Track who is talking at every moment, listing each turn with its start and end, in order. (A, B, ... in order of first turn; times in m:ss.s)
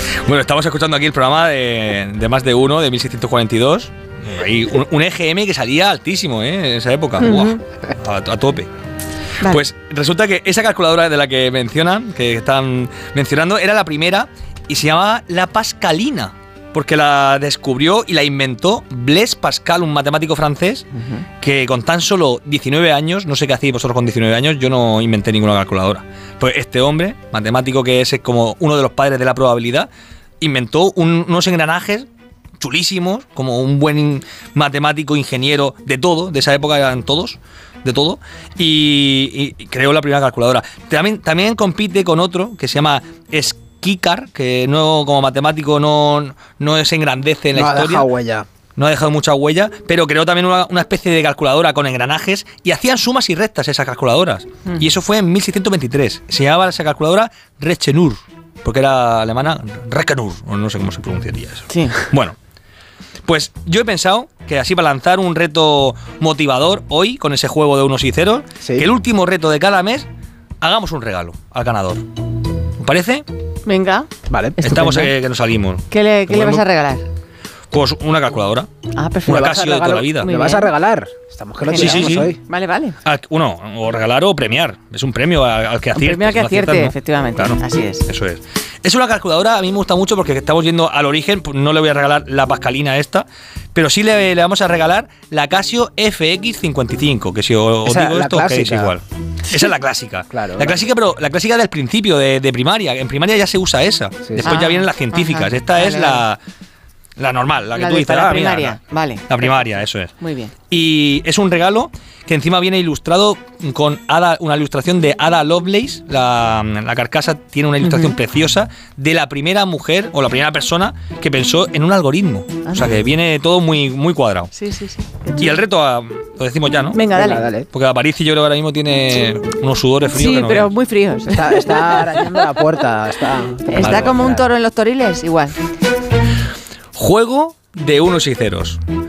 0:00.2-0:08.7 A
0:07.2-0:07.6 B
0:09.4-0:20.9 A
0:21.4-0:29.9 A
0:30.4-0:32.1 A
0:32.6-0:48.1 A
0:47.5-0:48.5 C
0:48.8-1:02.4 A
1:01.7-1:02.1 B
1:03.2-1:10.1 A
1:08.6-1:08.9 C
1:10.6-1:12.0 A
1:12.8-1:13.2 A
1:13.6-1:14.1 B
1:14.3-1:15.1 C
1:14.6-1:16.6 A
1:15.9-1:17.0 B
1:17.7-1:18.7 A
1:18.9-1:19.5 B
1:19.2-1:20.3 A
1:19.3-1:22.4 C
1:20.2-1:20.7 B
1:21.6-1:23.0 B
1:21.7-1:22.4 A
1:23.0-1:46.4 A
1:26.0-1:28.1 B
1:37.8-1:39.0 C
1:40.3-1:40.8 C
1:44.4-1:46.2 B
1:47.2-1:50.1 A
1:47.8-1:49.6 B
1:50.2-1:50.5 B
1:50.7-2:04.5 A
1:57.9-1:58.1 B
2:02.7-2:03.0 B
2:04.5-2:05.6 B
2:05.4-2:07.0 A
2:06.9-2:07.5 B
2:07.1-2:07.7 C
2:07.7-2:10.7 A
2:10.1-2:12.3 B
2:11.3-2:14.5 C
2:13.7-2:15.6 B
2:13.8-2:14.2 A
2:17.0-2:18.8 A